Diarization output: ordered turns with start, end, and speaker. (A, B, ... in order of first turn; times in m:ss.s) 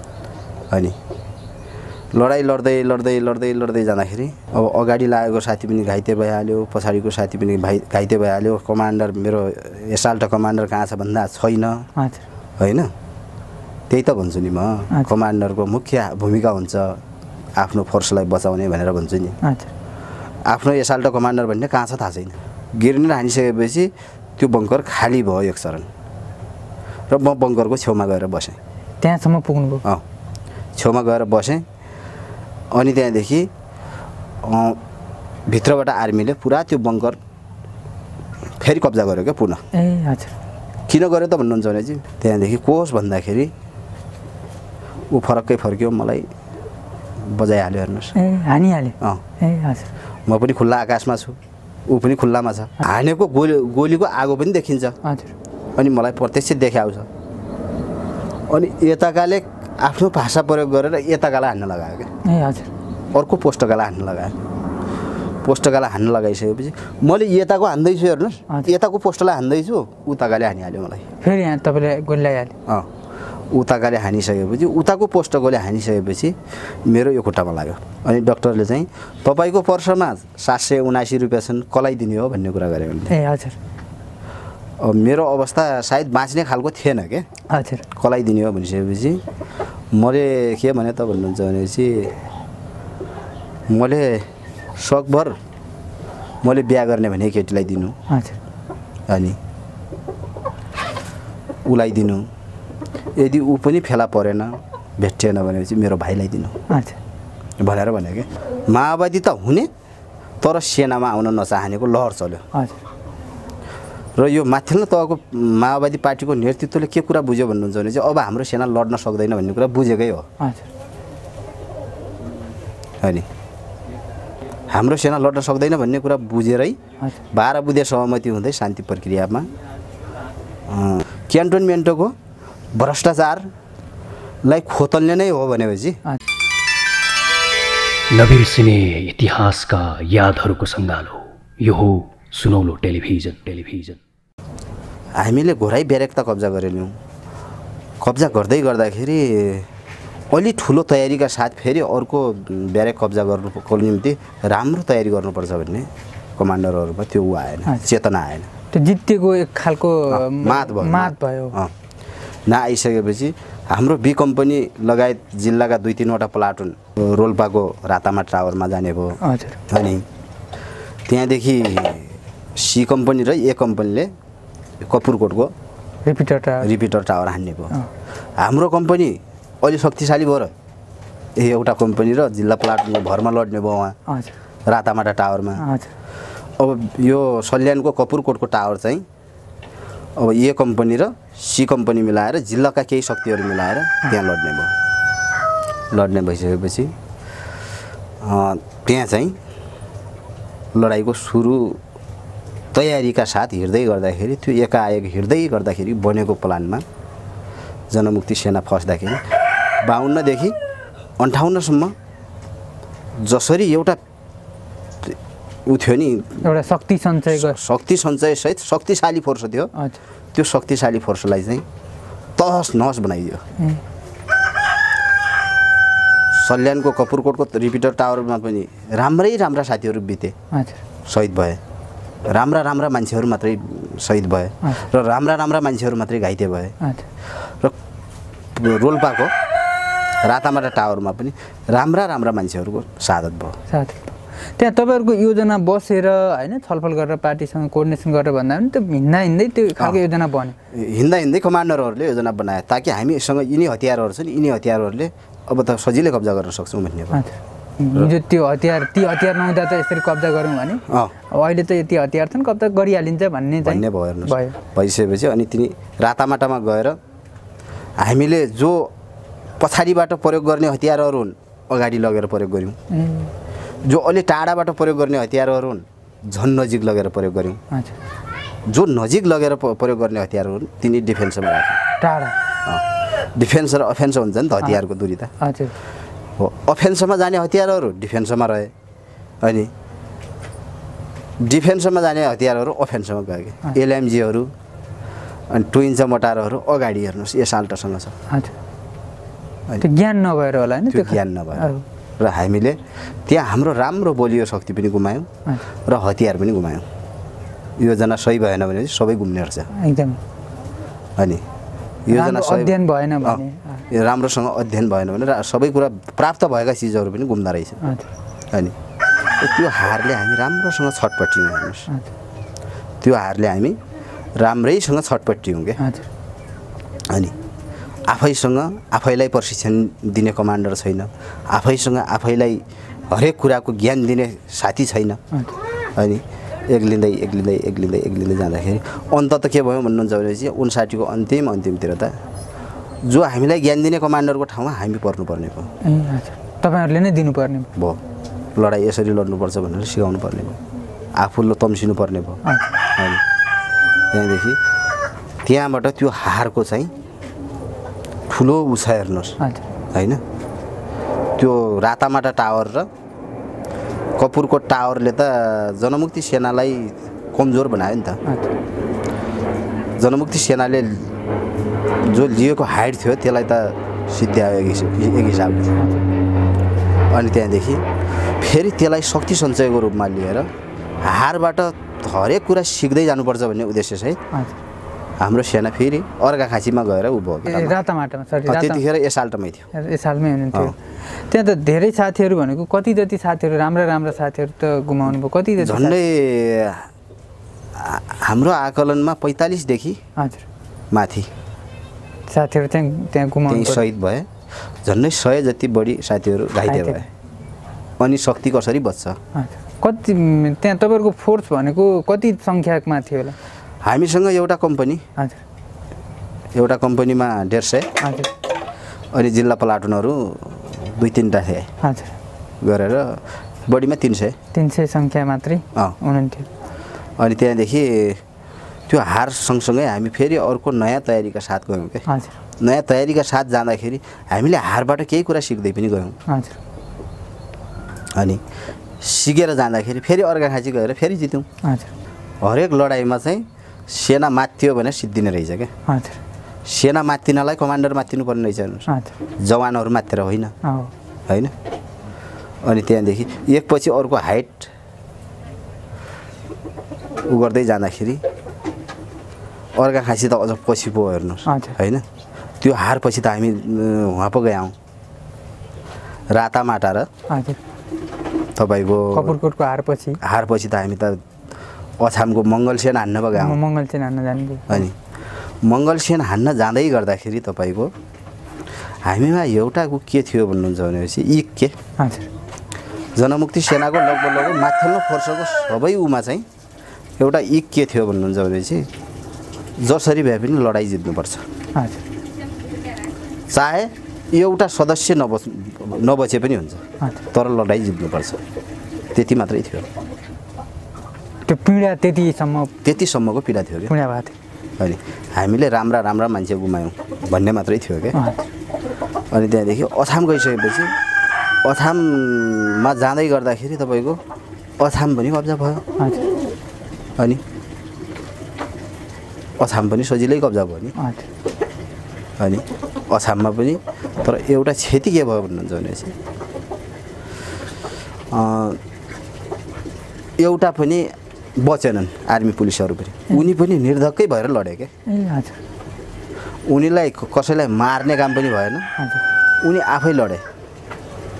0:00.7-0:01.0 A
0:02.1-0:11.9 A
0:12.0-0:12.2 B
0:12.6-0:12.9 A
0:13.9-0:17.0 A
0:17.6-0:19.4 A
0:19.4-0:19.7 B
0:20.5-0:25.9 A
0:27.1-0:28.6 A
0:29.0-0:29.8 B
0:30.8-0:31.6 A
0:32.7-0:33.5 A
0:34.4-0:34.8 A
0:35.5-0:37.2 A
0:38.6-0:39.6 A
0:39.7-0:40.3 B
0:40.9-0:43.5 A
0:45.1-0:46.3 A
0:47.2-0:48.2 A
0:48.2-0:49.9 B
0:50.3-0:51.4 A
0:51.9-0:55.0 A
0:55.0-0:55.3 B
0:55.8-0:57.1 A
0:58.5-1:02.1 A
1:02.2-1:02.7 B
1:03.1-1:04.4 A
1:05.4-1:11.1 A
1:11.2-1:12.6 B
1:13.5-1:23.2 A
1:23.1-1:23.6 B
1:24.8-1:27.3 A
1:27.5-1:27.8 B
1:27.9-1:29.2 A
1:29.9-1:32.1 A
1:33.7-1:35.4 A
1:36.4-1:38.0 A
1:38.1-1:38.4 B
1:39.1-1:39.4 A
1:41.7-1:42.3 A
1:43.2-1:46.6 A
1:46.7-1:47.0 B
1:47.6-1:49.7 A
1:50.4-1:52.4 A
1:52.5-1:52.8 B
1:54.2-2:00.3 A
2:00.4-2:00.7 B
2:04.7-2:06.8 A
2:07.3-2:09.5 A
2:10.7-2:12.2 A
2:12.8-2:13.5 A
2:14.4-2:16.0 A
2:18.1-2:24.0 C
2:25.2-2:26.9 A
2:28.0-2:29.7 A
2:30.3-2:38.5 A
2:38.7-2:41.6 B
2:40.1-2:41.7 A
2:42.5-2:50.0 A
2:49.2-2:49.6 B
2:51.1-2:54.1 A
2:54.8-2:55.5 A
2:56.0-2:56.7 B
2:56.6-2:57.8 A
2:58.4-3:00.5 A
3:01.4-3:04.0 A
3:04.1-3:04.4 B
3:04.7-3:05.6 A
3:05.6-3:05.9 B
3:06.6-3:09.0 A
3:10.2-3:14.7 A
3:15.9-3:16.9 A
3:18.2-3:19.4 A
3:20.8-3:21.8 A
3:22.7-3:26.8 A
3:27.9-3:29.2 A
3:29.8-3:30.6 A
3:31.2-3:32.0 A
3:33.2-3:34.0 A
3:35.0-3:36.4 A
3:36.4-3:37.6 B
3:37.3-3:39.7 A
3:39.8-3:40.0 B
3:40.4-3:41.6 A
3:42.4-3:43.4 A
3:46.3-3:50.4 A
3:50.5-3:50.8 B
3:51.1-3:51.6 A
3:52.3-3:56.8 A
3:56.8-3:57.1 B
3:57.5-3:57.8 A
3:58.5-3:59.3 A
4:00.2-4:03.6 A
4:03.7-4:10.6 B
4:10.7-4:17.2 A
4:17.1-4:24.6 B
4:20.9-4:21.2 A
4:23.6-4:27.0 A
4:28.0-4:28.9 A
4:29.6-4:32.8 A
4:32.9-4:33.3 B
4:33.8-4:37.6 A
4:37.7-4:38.0 B
4:38.7-4:41.8 A
4:42.0-4:42.4 B
4:42.7-4:45.3 A
4:45.4-4:45.7 B
4:46.4-4:48.7 A
4:49.4-4:49.7 A
4:51.4-4:54.5 A
4:55.5-4:58.2 A
4:58.3-4:58.6 B
4:59.8-5:01.8 B
5:00.9-5:05.3 A
5:05.8-5:06.8 A
5:07.8-5:09.7 A
5:09.7-5:10.2 B
5:11.2-5:11.4 A
5:12.1-5:17.8 A
5:12.1-5:13.9 B
5:17.8-5:18.1 B
5:19.4-5:21.9 A
5:23.0-5:23.8 A
5:24.4-5:25.8 A
5:25.8-5:26.1 B
5:28.1-5:35.2 A
5:36.0-5:42.2 A
5:43.1-5:45.7 A
5:45.8-5:47.7 B
5:48.6-5:50.6 A
5:51.2-5:52.4 A
5:52.9-5:53.2 A
5:54.1-5:54.6 A
5:55.4-5:56.9 A
5:58.3-5:59.4 A
5:59.9-6:00.2 A
6:01.4-6:02.9 A
6:04.2-6:08.2 A
6:08.2-6:08.6 B
6:10.0-6:11.1 A
6:12.0-6:15.7 A
6:15.8-6:16.1 B
6:17.1-6:17.8 A
6:18.4-6:20.5 A
6:21.0-6:24.2 A
6:24.3-6:24.6 B
6:25.2-6:27.8 A
6:27.4-6:28.8 B
6:28.5-6:29.7 A
6:29.7-6:36.0 B
6:35.6-6:36.9 A
6:37.8-6:40.0 A
6:40.2-6:40.4 B
6:40.9-6:41.3 A
6:42.3-6:43.9 B
6:43.5-6:44.3 A
6:44.8-6:47.1 A
6:46.7-6:47.1 B
6:48.0-6:49.2 A
6:49.3-6:53.4 B
6:53.8-6:55.0 A
6:56.6-6:57.9 A
6:58.0-6:58.3 B
6:59.1-7:01.7 A
7:01.8-7:02.1 B
7:02.6-7:04.4 A
7:04.5-7:06.5 B
7:07.2-7:08.2 A
7:08.9-7:12.1 A
7:12.1-7:12.4 B
7:12.6-7:16.2 A
7:16.3-7:16.6 B
7:19.0-7:21.5 A
7:21.6-7:21.9 B
7:22.4-7:25.7 A
7:25.9-7:26.2 B
7:26.7-7:30.6 A
7:28.9-7:29.1 B
7:30.6-7:30.9 B
7:31.3-7:31.5 A
7:32.6-7:34.7 A
7:37.3-7:38.2 A
7:39.8-7:42.0 A
7:41.5-7:41.8 B
7:42.6-7:44.8 A
7:46.3-7:47.1 A
7:47.3-7:47.6 B
7:48.6-7:49.4 A
7:49.1-7:50.2 B
7:50.2-7:51.2 A
7:52.0-7:53.6 A
7:53.4-7:54.8 B
7:54.7-7:55.0 A
7:55.6-7:57.9 A
7:59.0-8:01.7 A
8:02.0-8:02.3 B
8:03.2-8:06.4 A
8:07.2-8:08.9 A
8:09.8-8:11.4 A
8:11.8-8:12.0 B
8:13.5-8:18.4 A
8:19.1-8:19.9 A
8:21.5-8:22.7 B
8:22.8-8:23.9 A
8:23.9-8:24.4 B
8:24.8-8:28.2 A
8:28.1-8:28.5 B
8:29.3-8:30.9 A
8:31.6-8:34.2 A
8:34.8-8:35.8 A
8:36.0-8:36.3 B
8:39.6-8:41.0 A
8:41.0-8:41.3 B
8:42.4-8:46.1 A
8:48.3-8:48.8 A
8:50.4-8:54.9 A
8:55.1-8:55.6 B
8:56.7-8:58.9 A
8:59.0-8:59.2 B
8:59.6-9:00.4 A